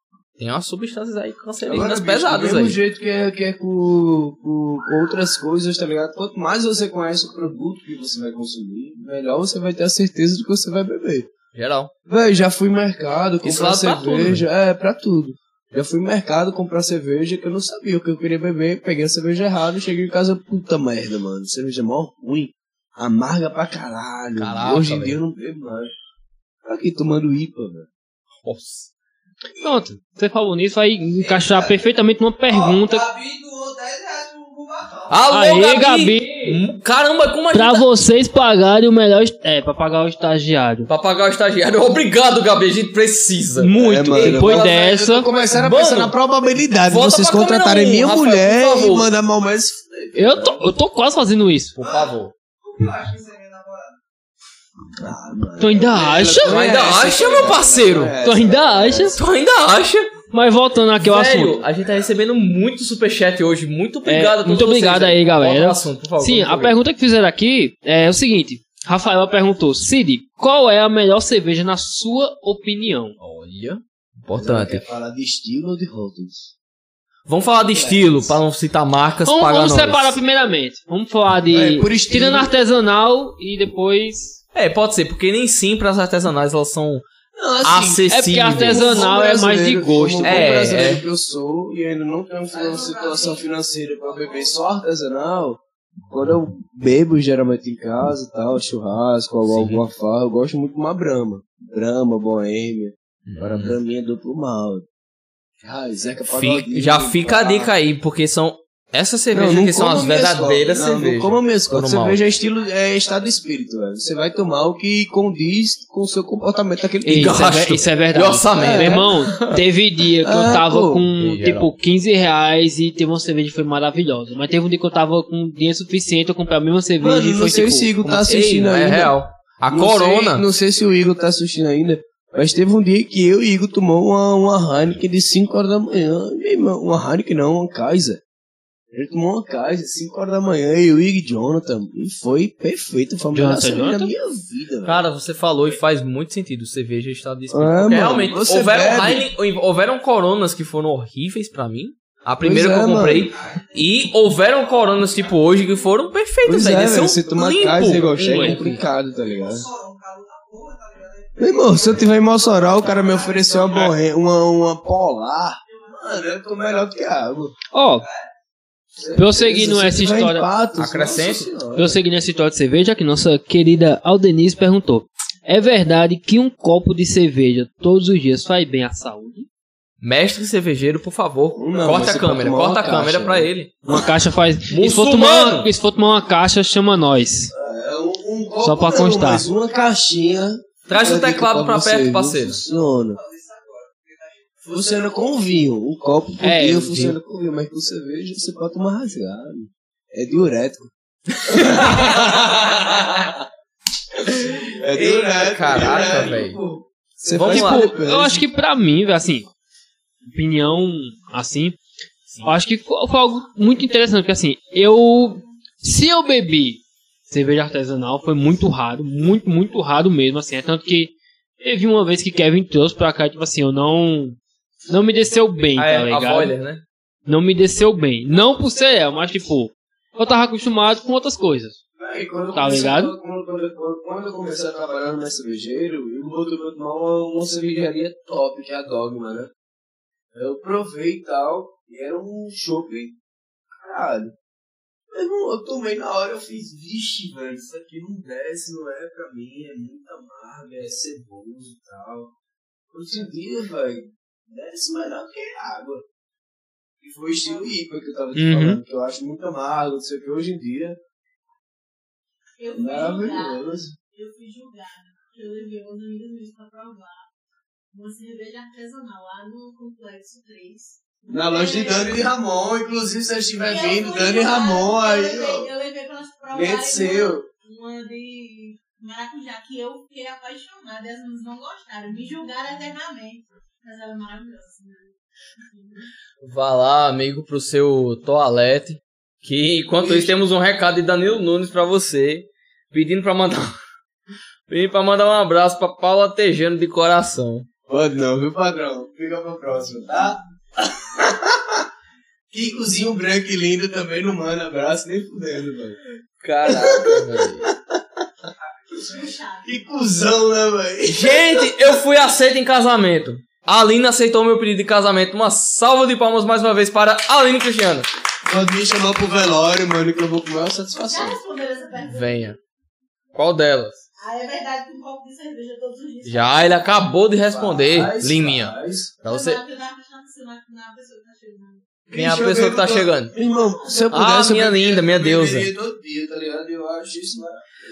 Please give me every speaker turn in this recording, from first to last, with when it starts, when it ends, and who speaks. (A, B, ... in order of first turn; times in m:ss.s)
0:00.4-0:02.8 A
0:01.6-0:11.3 B
0:11.5-0:11.9 A
0:12.1-0:25.9 B
0:13.4-0:14.4 A
0:24.4-0:25.2 A
0:26.6-0:27.9 B
0:28.4-0:28.9 A
0:29.6-0:33.1 C
0:31.2-0:31.8 D
0:32.5-0:35.2 D
0:35.1-0:38.0 A
0:35.3-0:36.6 C
0:37.5-0:40.9 C
0:40.9-0:44.7 A
0:43.6-0:45.3 C
0:43.8-0:50.6 B
0:45.6-0:46.1 A
0:46.9-0:49.1 A
0:50.2-0:51.8 C
0:51.7-0:52.3 A
0:51.8-0:54.0 D
0:55.0-0:59.2 B
0:55.6-0:56.6 C
0:56.4-0:58.2 A
0:57.2-0:57.8 D
0:58.2-0:59.2 C
0:59.1-1:00.1 A
1:00.3-1:01.6 C
1:01.0-1:06.8 A
1:04.1-1:13.2 C
1:13.2-1:14.8 A
1:14.4-1:16.5 B
1:17.3-1:20.2 A
1:17.7-1:18.4 B
1:19.2-1:24.4 C
1:21.5-1:22.5 B
1:24.5-1:27.1 A
1:27.4-1:44.9 B
1:27.6-1:29.1 A
1:28.1-1:30.6 C
1:30.2-1:31.1 A
1:32.5-1:33.4 D
1:34.1-1:34.5 D
1:39.4-1:39.8 A
1:43.2-1:43.8 A
1:45.6-1:47.7 B
1:46.3-1:52.2 A
1:49.3-1:57.4 B
1:57.0-2:08.0 C
1:57.1-1:59.6 A
1:58.6-1:59.1 B
2:00.2-2:01.1 B
2:01.2-2:01.7 A
2:07.0-2:09.2 B
2:08.1-2:10.4 A
2:09.7-2:18.2 B
2:18.9-2:25.0 B
2:23.3-2:24.1 C
2:24.8-2:38.8 A
2:27.5-2:29.3 B
2:32.4-2:33.3 B
2:33.4-2:35.9 D
2:36.4-2:39.7 B
2:38.2-2:38.6 C
2:39.0-2:43.9 D
2:41.4-2:47.5 B
2:47.7-2:48.1 C
2:48.0-2:48.3 D
2:49.0-2:52.0 B
2:49.2-2:50.5 C
2:50.8-2:51.5 A
2:51.8-2:59.5 C
3:00.0-3:03.8 A
3:01.5-3:04.0 B
3:03.9-3:07.5 C
3:04.7-3:05.7 A
3:07.5-3:13.2 B
3:08.6-3:09.5 C
3:10.9-3:12.6 A
3:13.1-3:15.1 D
3:14.7-3:20.9 B
3:16.4-3:17.2 C
3:21.4-3:23.4 B
3:24.1-3:28.5 B
3:24.9-3:26.6 A
3:27.3-3:27.9 A
3:27.4-3:29.5 C
3:30.3-3:31.8 C
3:32.4-3:46.5 C
3:45.8-3:46.8 A
3:47.3-3:51.8 C
3:52.0-3:59.5 B
3:52.5-3:53.1 C
4:00.3-4:03.2 B
4:03.8-4:04.3 B
4:05.1-4:12.3 B
4:12.9-4:16.0 B
4:17.0-4:21.0 B
4:18.4-4:18.8 C
4:22.6-4:27.3 E
4:22.7-4:24.0 B
4:27.9-4:32.2 E
4:31.3-4:35.7 B
4:33.6-4:45.2 E
4:36.5-4:37.4 B
4:45.7-4:46.1 E
4:46.4-4:53.8 A
4:50.0-4:50.4 B
4:54.7-4:57.7 A
4:57.9-5:01.8 B
5:02.5-5:06.0 B
5:06.4-5:07.7 A
5:06.6-5:08.0 B
5:08.9-5:09.8 E
5:09.0-5:12.0 B
5:11.1-5:18.1 A
5:18.5-5:21.4 B
5:21.1-5:22.6 E
5:22.0-5:22.6 A
5:23.3-5:24.0 A
5:24.2-5:27.0 E
5:26.2-5:29.6 A
5:27.5-5:29.1 B
5:29.2-5:31.9 E
5:32.1-5:37.6 B
5:32.1-5:33.3 A
5:34.1-5:35.7 A